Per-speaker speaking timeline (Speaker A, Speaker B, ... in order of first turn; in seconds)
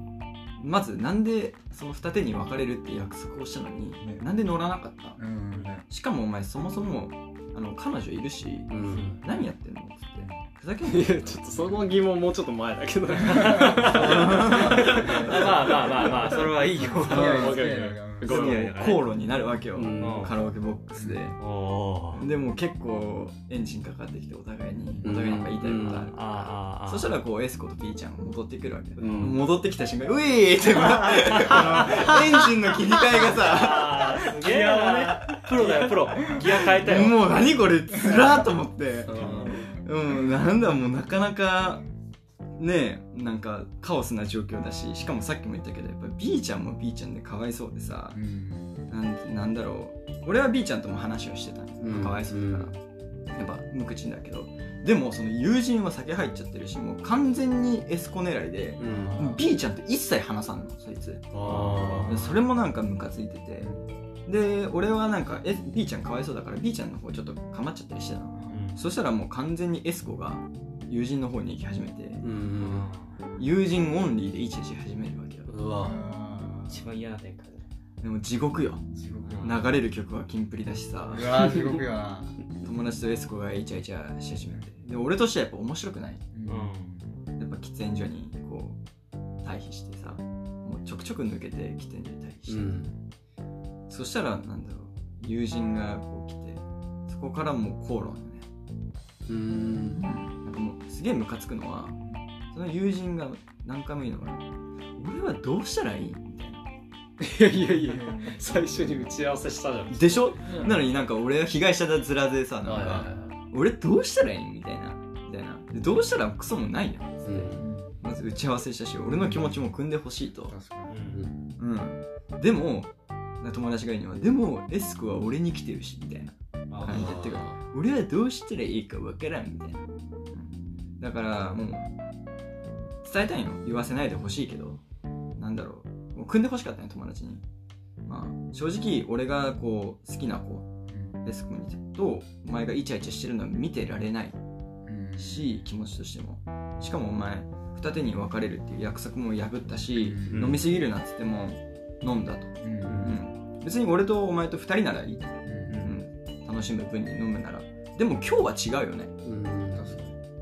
Speaker A: 0.6-5.2, 5.9-11.5, 13.8-15.5, 18.3-21.4, 22.1-41.8, 42.6-48.2, 48.9-52.8, 53.3-63.7, 64.3-72.2, 73.4-75.5, 78.0-81.5, 82.6-86.2, 87.4-88.8, 89.4-92.9, 93.9-98.5, 99.9-102.0, 102.5-104.5, 105.0-106.6, 109.9-120.5, 121.6-131.9, 133.0-134.8, 135.4-137.4, 138.1-140.7, 141.2-144.4, 145.2-159.2
Speaker B: 4.0-4.3, 5.2-5.8, 10.2-10.4, 13.2-15.4, 16.8-18.3, 21.0-21.3, 24.9-25.1, 31.3-32.2, 37.9-38.5, 39.1-40.4, 48.1-48.9, 58.8-59.5, 61.8-62.2, 68.3-68.7, 75.8-76.9, 78.9-79.6, 81.1-82.4, 86.3-87.1, 107.5-109.1, 117.5-118.0, 119.2-119.5, 120.5-120.9, 140.9-141.2, 144.8-145.5, 149.9-150.6, 152.6-153.1, 155.4-155.8, 159.7-160.2
Speaker C: 8.7-9.2, 10.9-18.8, 19.7-20.4, 25.0-26.1, 29.0-29.4, 34.4-35.1, 39.1-39.6, 51.8-52.7, 58.8-59.2, 61.3-62.4, 72.2-72.9, 75.5-76.0, 92.5-92.9, 99.3-100.0, 107.2-110.7, 112.7-113.4, 117.2-117.7, 126.8-127.6, 159.2-159.9
Speaker D: 13.6-19.1, 20.0-20.3, 21.4-22.3, 25.9-27.1, 31.4-31.7, 33.2-37.2, 39.1-39.6, 61.4-62.1, 68.5-68.8, 72.6-73.1, 76.7-77.7, 86.5-86.9, 120.9-121.2, 126.7-127.3, 150.3-150.6, 152.9-153.2, 155.7-156.0